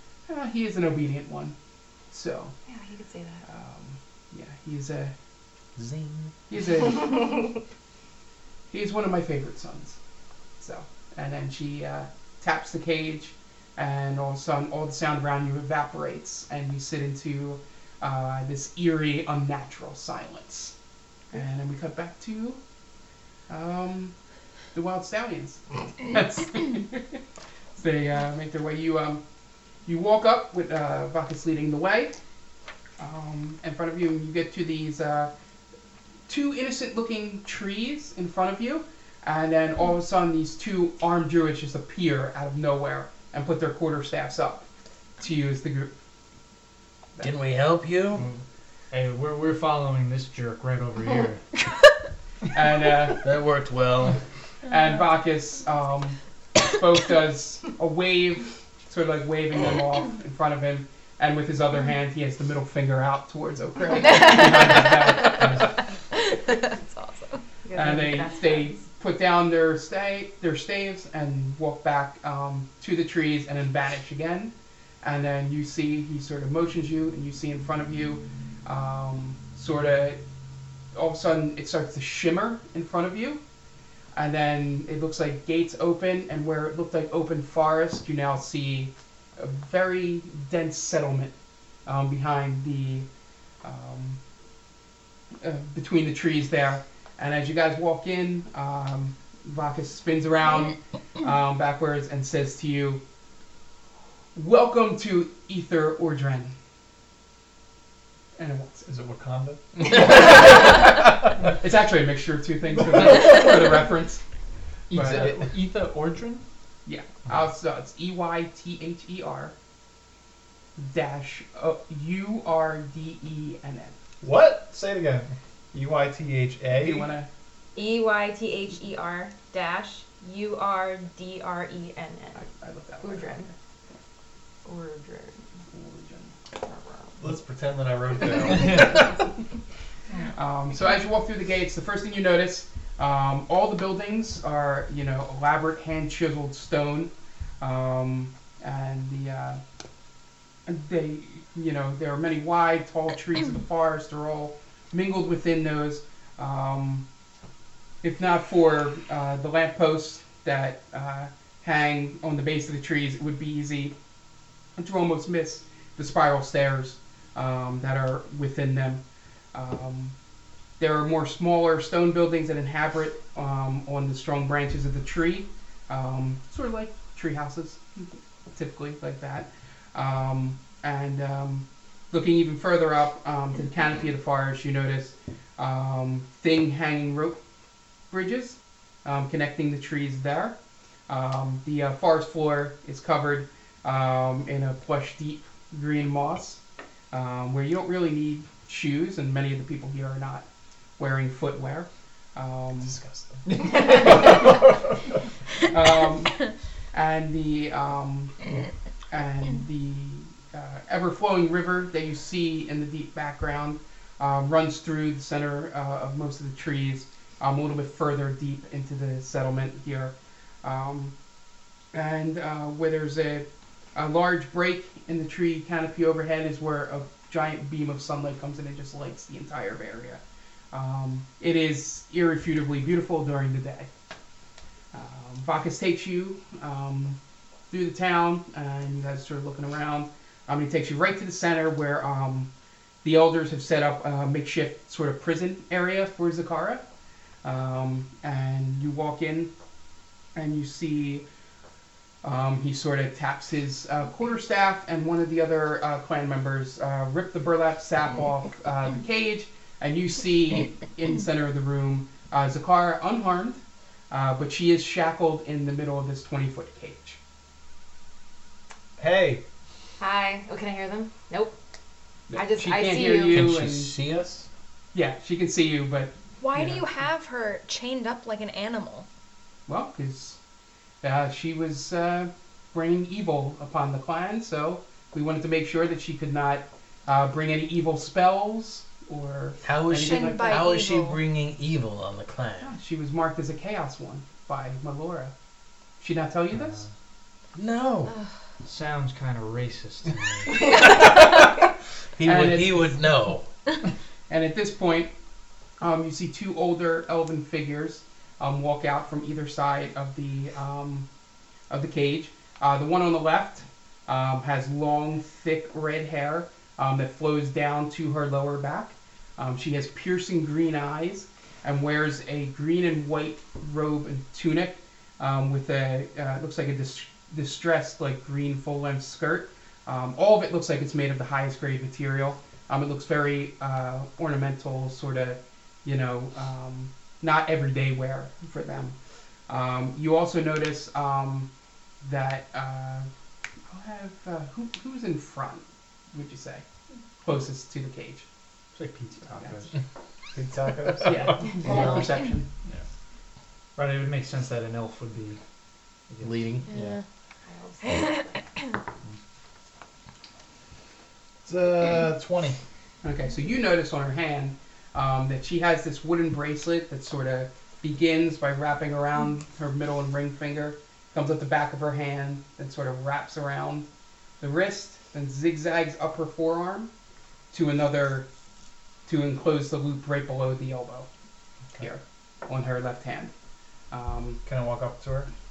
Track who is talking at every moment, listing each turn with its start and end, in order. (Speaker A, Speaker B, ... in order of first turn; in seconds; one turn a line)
Speaker A: 0.3-1.5
Speaker A: 2.1-2.5
Speaker B: 2.7-3.4
Speaker A: 3.5-5.1
Speaker C: 5.8-6.3
Speaker A: 6.5-7.5
Speaker A: 8.7-10.0
Speaker A: 10.6-20.7
Speaker A: 21.3-22.6
Speaker A: 23.5-24.1
Speaker A: 24.7-27.2
Speaker A: 27.8-29.2
Speaker A: 29.9-32.1
Speaker A: 33.0-35.3
Speaker A: 36.3-44.6
Speaker A: 45.2-45.9
Speaker C: 47.2-48.2
Speaker D: 48.1-51.4
Speaker A: 52.5-53.2
Speaker C: 53.2-54.2
Speaker A: 54.7-65.7
Speaker D: 65.3-65.7
Speaker E: 66.1-67.4
Speaker B: 67.6-68.8
Speaker A: 67.7-74.5
Speaker A: 75.0-80.2
Speaker A: 80.9-83.4
Speaker A: 84.1-91.3
Speaker A: 91.8-93.1
Speaker A: 93.6-94.2
Speaker A: 95.4-103.0
Speaker A: 104.3-106.5
Speaker A: 108.4-108.9
Speaker F: 108.9-110.2
Speaker A: 109.8-111.0
Speaker A: 111.6-114.2
Speaker D: 114.9-116.4
Speaker A: 114.9-115.3
Speaker A: 116.8-119.5
Speaker A: 120.8-124.0
Speaker F: 124.2-127.1
Speaker A: 126.7-127.3
Speaker B: 127.7-132.4
Speaker A: 132.3-133.5
Speaker B: 133.0-133.5
Speaker B: 134.6-135.4
Speaker A: 135.7-136.4
Speaker B: 136.6-137.1
Speaker F: 137.2-139.1
Speaker D: 138.6-138.9
Speaker A: 140.3-149.6
Speaker A: 150.7-157.0
Speaker A: 158.0-163.9
Speaker A: 164.8-169.0
Speaker A: 169.5-170.1
Speaker A: 170.8-187.4
Speaker A: 188.1-190.5
Speaker A: 191.1-196.6
Speaker A: 197.1-200.4
Speaker A: 201.0-203.0
Speaker F: 202.8-204.9
Speaker A: 203.8-204.3
Speaker A: 205.7-221.1
Speaker A: 221.9-230.2
Speaker A: 230.7-233.9
Speaker A: 234.9-237.2
Speaker A: 237.7-242.5
Speaker A: 243.0-246.8
Speaker A: 247.4-249.5
Speaker A: 250.3-251.2
Speaker A: 252.2-263.6
Speaker A: 264.1-267.2
Speaker F: 269.0-269.4
Speaker B: 270.0-271.5
Speaker A: 272.3-273.9
Speaker B: 272.3-273.4
Speaker C: 273.3-274.5
Speaker A: 274.9-276.9
Speaker E: 276.4-279.1
Speaker A: 279.7-280.4
Speaker A: 281.0-290.6
Speaker C: 289.6-292.7
Speaker E: 289.9-291.2
Speaker A: 292.6-295.3
Speaker A: 296.0-296.8
Speaker D: 296.5-296.9
Speaker C: 297.5-298.1
Speaker D: 298.6-300.6
Speaker C: 300.8-301.5
Speaker C: 302.2-303.5
Speaker A: 302.2-303.1
Speaker A: 304.3-305.1
Speaker A: 305.8-311.1
Speaker A: 311.7-338.9
Speaker A: 339.5-341.5
Speaker A: 342.0-343.1
Speaker A: 343.7-346.6
Speaker A: 347.2-348.2
Speaker D: 348.7-349.7
Speaker A: 349.4-349.7
Speaker F: 350.3-351.8
Speaker A: 351.0-352.5
Speaker D: 353.8-355.4
Speaker D: 356.1-356.9
Speaker C: 356.2-356.6
Speaker E: 356.7-357.0
Speaker B: 357.5-358.4
Speaker F: 361.4-362.6
Speaker A: 363.0-373.9
Speaker A: 374.4-376.9
Speaker A: 377.5-378.2
Speaker A: 379.1-381.1
Speaker A: 381.8-383.3
Speaker A: 383.9-384.4
Speaker F: 384.4-385.3